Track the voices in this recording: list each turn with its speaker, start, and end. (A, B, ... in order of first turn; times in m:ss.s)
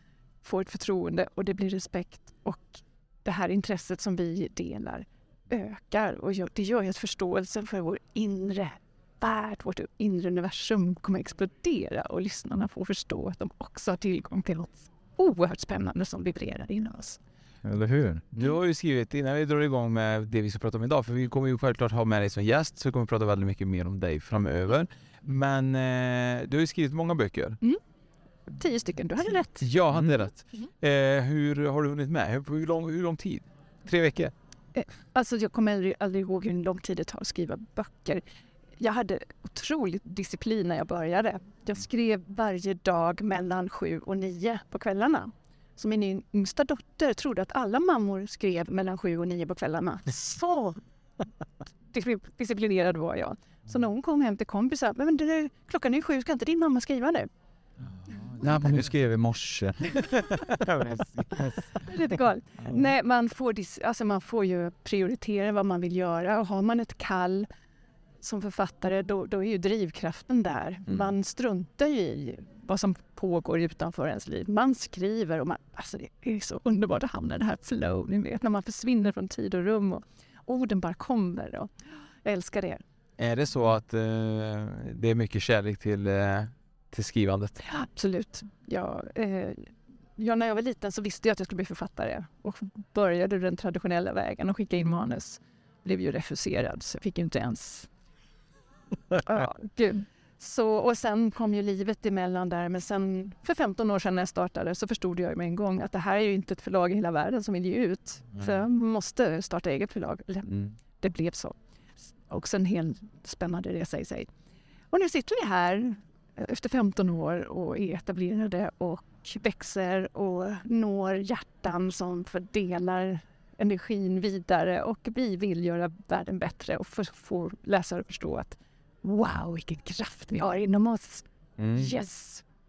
0:00.4-0:17.2 A
0:17.6-0:18.2 B
0:18.3-0:27.6 C
0:28.5-0:29.6 A
0:29.6-0:34.3 C
0:34.7-0:38.2 A
0:38.8-0:50.8 A
0:51.9-0:57.3 A
0:58.4-0:59.8 B
0:59.9-1:01.7 C
1:01.8-1:07.5 A
1:08.2-1:21.7 A
1:22.2-1:22.8 A
1:23.2-1:27.6 C
1:27.6-1:37.9 A
1:39.2-1:51.6 A
1:52.3-1:54.3 A
1:54.9-2:12.4 A
2:11.6-2:11.9 B